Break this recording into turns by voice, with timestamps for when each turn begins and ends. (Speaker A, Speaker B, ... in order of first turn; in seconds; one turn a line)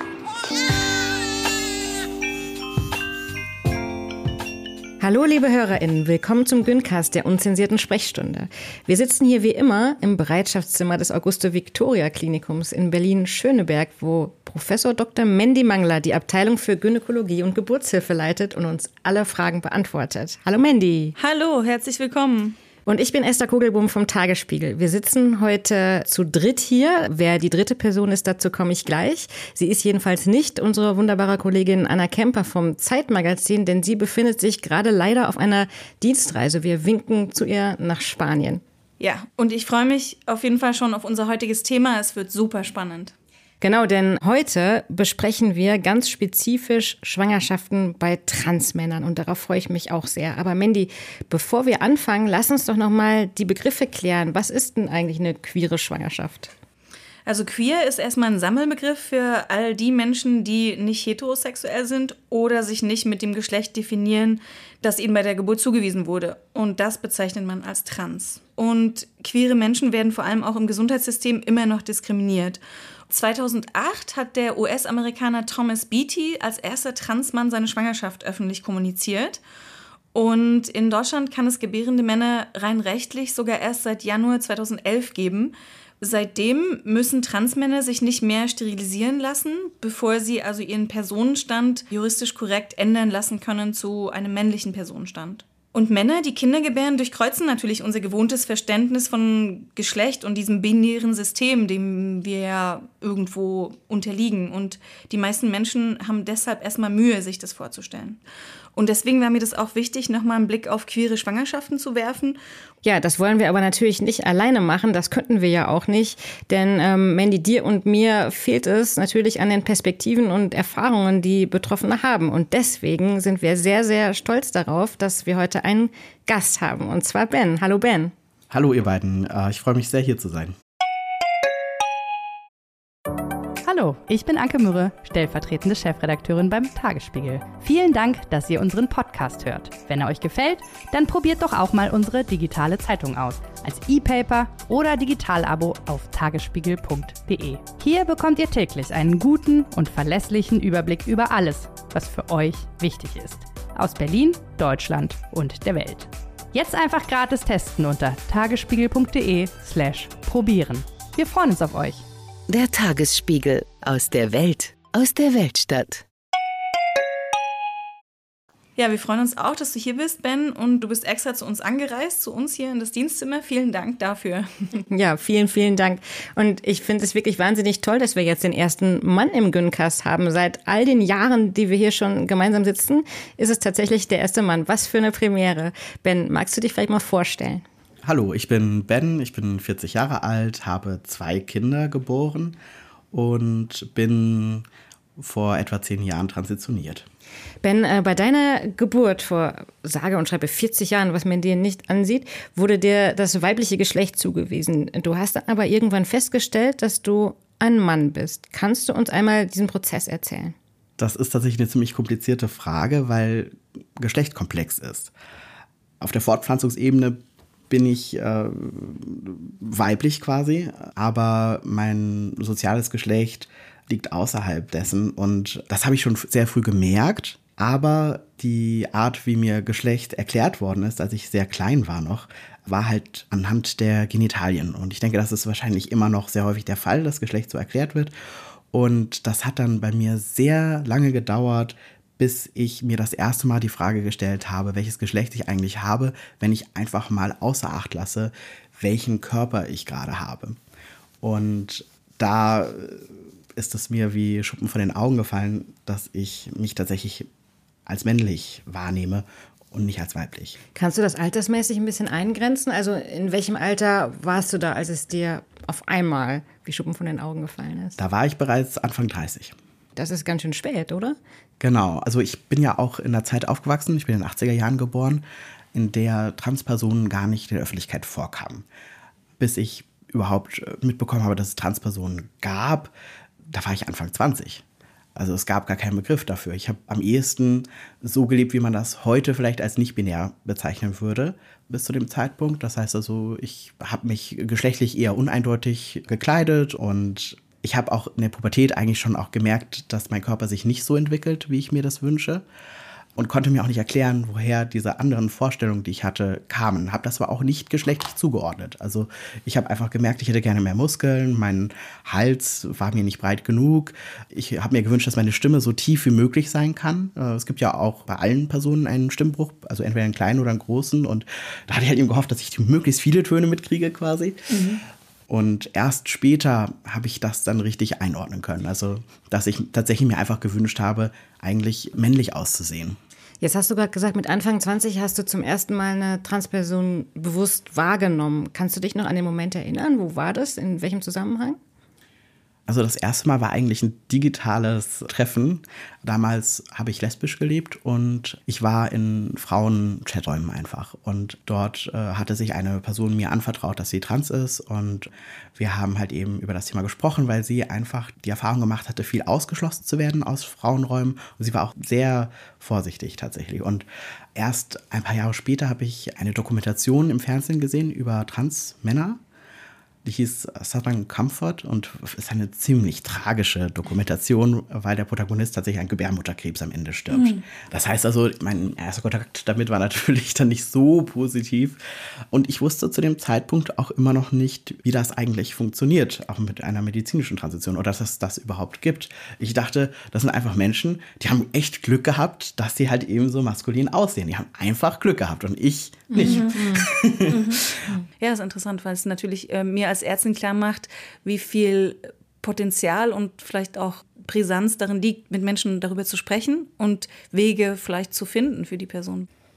Speaker A: 5.0-21.2
Speaker B: 21.2-22.6
Speaker A: 22.9-38.6
Speaker B: 39.0-43.1
Speaker A: 43.6-56.5
Speaker B: 57.2-79.4
Speaker B: 80.1-108.2
Speaker B: 108.8-112.4
Speaker A: 112.8-128.1
Speaker C: 128.5-130.5
Speaker D: 133.6-162.0
Speaker E: 162.5-166.0
Speaker B: 168.8-174.5
Speaker A: 174.9-187.6
Speaker C: 188.0-192.6
Speaker C: 193.1-197.1
Speaker A: 197.6-210.5
Speaker C: 211.0-215.1
Speaker C: 216.0-238.1
Speaker C: 238.7-250.6
Speaker C: 251.2-257.3
Speaker C: 257.9-260.6
Speaker A: 260.8-268.0
Speaker C: 268.0-269.6
Speaker A: 269.9-271.2
Speaker C: 271.6-278.6
Speaker C: 279.4-282.9
Speaker C: 283.5-284.6
Speaker C: 285.1-302.4
Speaker C: 303.2-324.6
Speaker C: 325.3-333.0
Speaker A: 333.4-341.6
Speaker C: 342.7-369.2
Speaker C: 370.0-397.6
Speaker B: 377.1-377.4
Speaker A: 396.1-396.9
Speaker B: 396.2-396.6
Speaker B: 397.3-397.6
Speaker B: 398.2-409.3